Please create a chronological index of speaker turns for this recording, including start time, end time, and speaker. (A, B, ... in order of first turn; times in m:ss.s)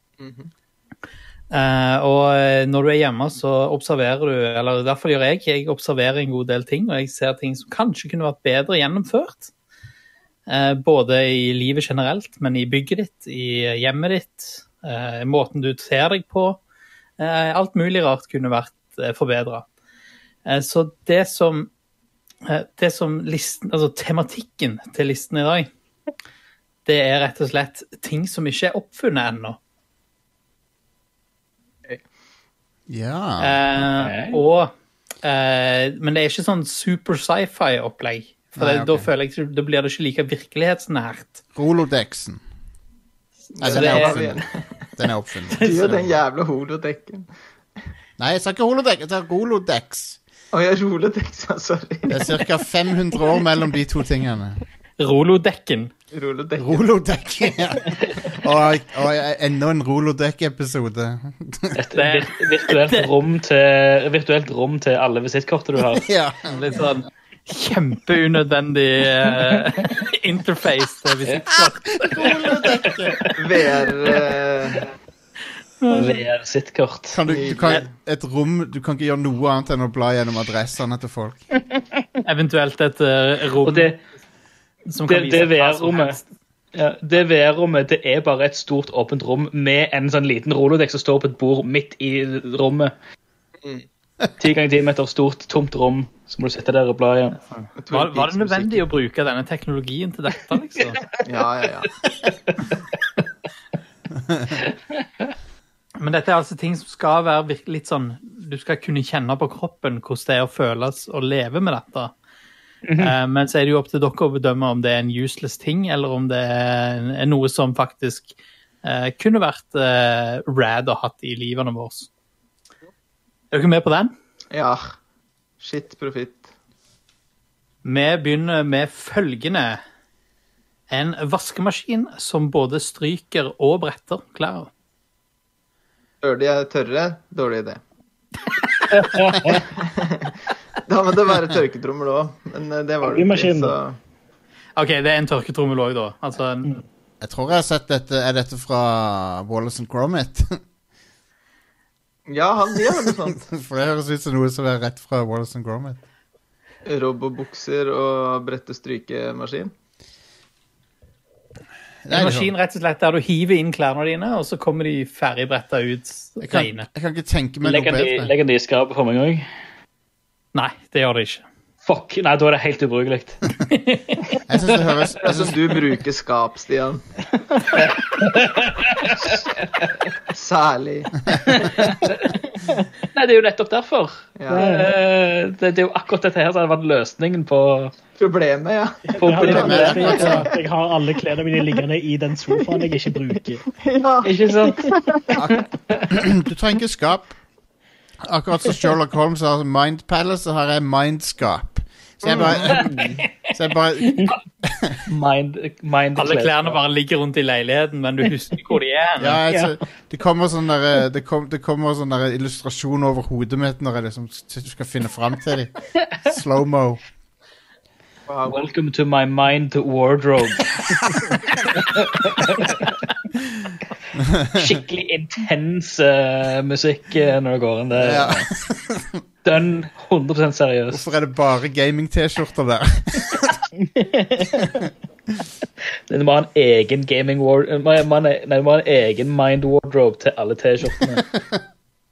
0:00.2-0:00.5 A
0:01.5-0:09.5 B
0:10.5-0:16.6 B
0:17.2-0:19.6 B
0:20.4-0:21.7 B
0:22.4-0:25.7 B
0:26.8-0:29.6 B
0:32.9-0:33.6 C
0:33.4-0:34.7 B
0:34.0-0:34.4 D
0:35.2-0:41.4 B
0:38.5-0:39.1 C
0:41.6-0:42.4 C
0:43.6-0:44.6 A
0:43.6-0:44.4 C
0:43.6-0:44.1 B
0:45.0-0:46.0 C
0:45.5-0:45.9 B
0:45.6-0:47.3 A
0:48.2-0:50.2 C
0:50.5-0:52.2 A
0:52.1-0:54.6 C
0:55.0-0:55.9 B
0:56.1-0:56.8 A
0:56.6-1:01.8 C
1:01.7-1:06.0 D
1:02.0-1:03.0 B
1:06.0-1:06.8 C
1:06.5-1:12.3 B
1:11.5-1:13.2 C
1:13.0-1:13.3 D
1:13.4-1:14.8 A
1:15.8-1:16.2 B
1:15.9-1:17.2 D
1:17.1-1:21.4 C
1:17.3-1:17.8 A
1:22.2-1:23.9 B
1:23.6-1:24.0 D
1:24.9-1:26.3 B
1:25.0-1:26.2 D
1:26.7-1:32.9 D
1:34.4-1:37.4 D
1:37.4-1:41.0 B
1:37.8-1:38.8 A
1:41.2-1:41.9 A
1:46.0-1:52.1 B
1:52.8-1:53.2 D
1:53.0-2:02.1 B
2:03.5-2:04.1 B
2:04.5-2:04.9 A
2:05.6-2:06.5 A
2:07.8-2:09.8 B
2:10.9-2:14.7 B
2:16.2-2:17.8 A
2:19.0-2:19.6 D
2:19.2-2:19.6 E
2:19.5-2:20.3 A
2:20.9-2:24.0 A
2:23.0-2:23.8 E
2:24.8-2:26.8 B
2:27.2-2:30.5 C
2:32.3-2:33.5 A
2:33.4-2:36.0 C
2:36.8-2:39.7 A
2:42.0-2:42.5 C
2:42.1-2:46.9 B
2:46.4-2:48.3 C
2:47.6-2:49.4 D
2:50.5-2:51.4 B
2:51.8-2:53.4 D
2:53.7-2:54.2 B
2:54.5-2:55.6 C
2:55.2-2:57.0 A
2:58.1-2:59.4 D
3:00.3-3:01.7 A
3:01.5-3:02.4 D
3:03.1-3:07.9 D
3:04.4-3:04.7 A
3:04.5-3:04.9 E
3:08.2-3:10.5 A
3:09.1-3:13.6 E
3:09.2-3:10.4 D
3:09.4-3:10.4 C
3:13.7-3:15.4 A
3:14.2-3:16.1 D
3:15.4-3:17.3 C
3:18.2-3:25.0 C
3:22.6-3:23.2 D
3:25.0-3:26.8 D
3:26.2-3:29.4 B
3:29.2-3:37.0 C
3:38.3-3:38.6 A
3:38.5-3:41.0 D
3:41.7-3:42.9 D
3:44.5-3:48.4 D
3:47.9-3:49.2 C
3:49.4-3:51.1 D
3:50.9-3:53.6 C
3:53.9-3:54.8 D
3:56.1-4:01.3 D